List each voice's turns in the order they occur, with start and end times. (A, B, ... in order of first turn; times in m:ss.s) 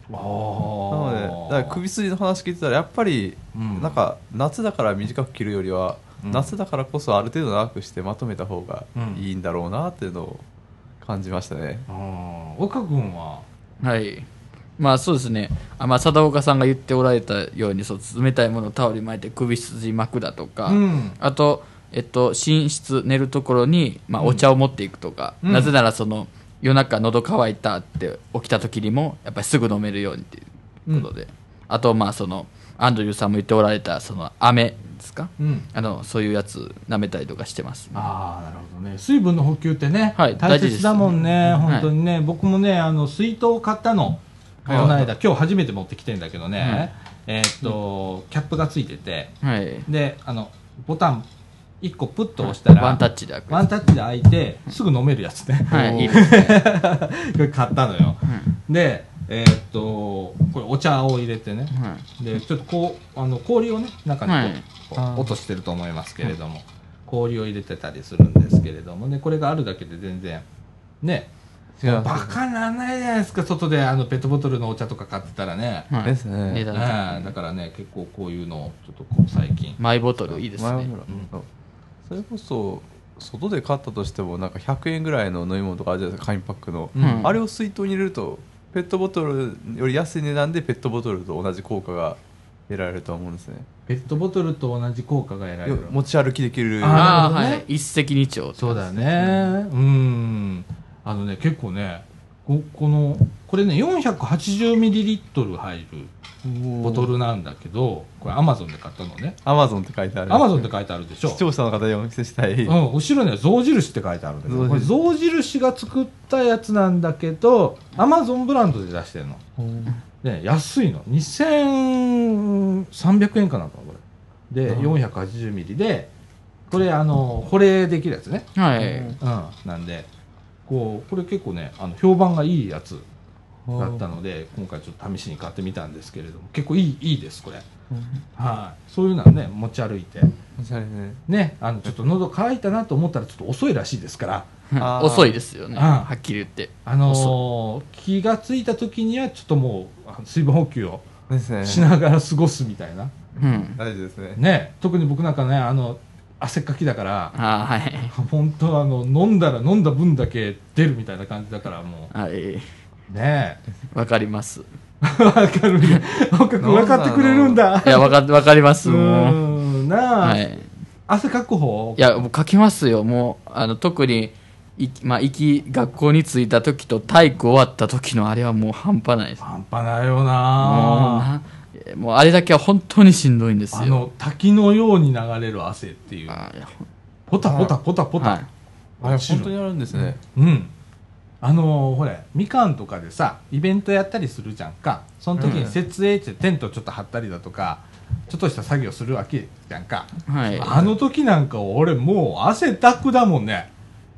0:00.1-0:01.8 A
0:00.9-0:10.4 B
0:03.5-0:04.0 A
0:06.2-0:06.5 A
0:08.9-0:09.2 A
0:11.0-0:11.9 B
0:11.9-0:13.5 A
0:13.8-0:14.3 C
0:14.8-0:38.1 C
0:20.6-0:21.2 A
0:24.2-0:24.5 A
0:25.4-0:25.7 A
0:35.4-0:35.7 A
0:37.9-0:49.3 A
0:40.2-0:41.9 C
0:44.6-0:45.1 B
0:44.7-0:45.0 C
0:46.6-0:46.9 C
0:49.4-0:49.9 C
0:49.9-0:51.2 A
0:51.8-1:10.5 A
0:52.4-0:53.7 C
0:55.7-0:56.3 B
0:55.7-0:56.6 C
1:01.8-1:02.0 C
1:04.2-1:04.6 C
1:05.0-1:05.3 B
1:11.0-1:11.3 A
1:11.8-1:12.4 B
1:11.8-1:15.9 A
1:15.9-1:17.4 C
1:16.0-1:16.6 B
1:16.7-1:19.8 A
1:19.8-1:20.9 C
1:20.5-1:21.5 B
1:22.1-1:32.2 B
1:26.9-1:27.3 A
1:27.0-1:27.3 C
1:32.7-1:33.7 B
1:33.9-1:35.9 A
1:35.6-1:37.3 B
1:36.8-1:37.6 A
1:36.9-1:38.9 C
1:38.6-1:46.1 A
1:39.2-1:39.5 B
1:46.4-1:47.1 B
1:46.8-1:49.4 A
1:49.4-1:50.6 B
1:50.3-1:51.4 A
1:51.2-1:52.8 B
1:52.6-1:59.4 A
1:54.5-1:54.9 B
1:59.6-1:59.9 B
2:00.2-2:06.1 A
2:04.7-2:05.0 B
2:06.7-2:08.5 A
2:08.6-2:09.2 C
2:08.8-2:09.2 B
2:09.2-2:10.1 A
2:10.6-2:13.0 A
2:13.7-2:14.1 B
2:13.8-2:17.6 A
2:17.9-2:18.2 B
2:18.4-2:20.3 A
2:20.6-2:21.2 B
2:21.3-2:24.5 A
2:24.7-2:27.4 C
2:24.8-2:25.4 B
2:25.8-2:26.1 A
2:26.9-2:31.0 A
2:31.3-2:31.9 B
2:31.6-2:33.1 A
2:33.4-2:33.8 C
2:33.8-2:34.4 B
2:34.4-2:37.4 A
2:37.4-2:38.1 C
2:38.1-2:42.1 A
2:42.1-2:42.6 C
2:43.1-2:43.6 A
2:43.9-2:44.6 C
2:45.0-2:48.2 A
2:46.6-2:47.6 B
2:47.8-2:49.4 C
2:48.8-2:50.4 A
2:50.2-2:50.6 C
2:51.1-2:52.1 A
2:52.0-2:59.4 C
2:59.4-3:01.3 A
3:00.6-3:04.0 C
3:03.7-3:06.4 A
3:06.3-3:06.9 C
3:07.3-3:08.4 A
3:07.4-3:07.7 B
3:08.2-3:08.5 C
3:09.0-3:09.5 A
3:09.0-3:10.2 B
3:10.2-3:10.7 A
3:11.4-3:23.7 A
3:15.4-3:15.8 B
3:20.3-3:20.8 C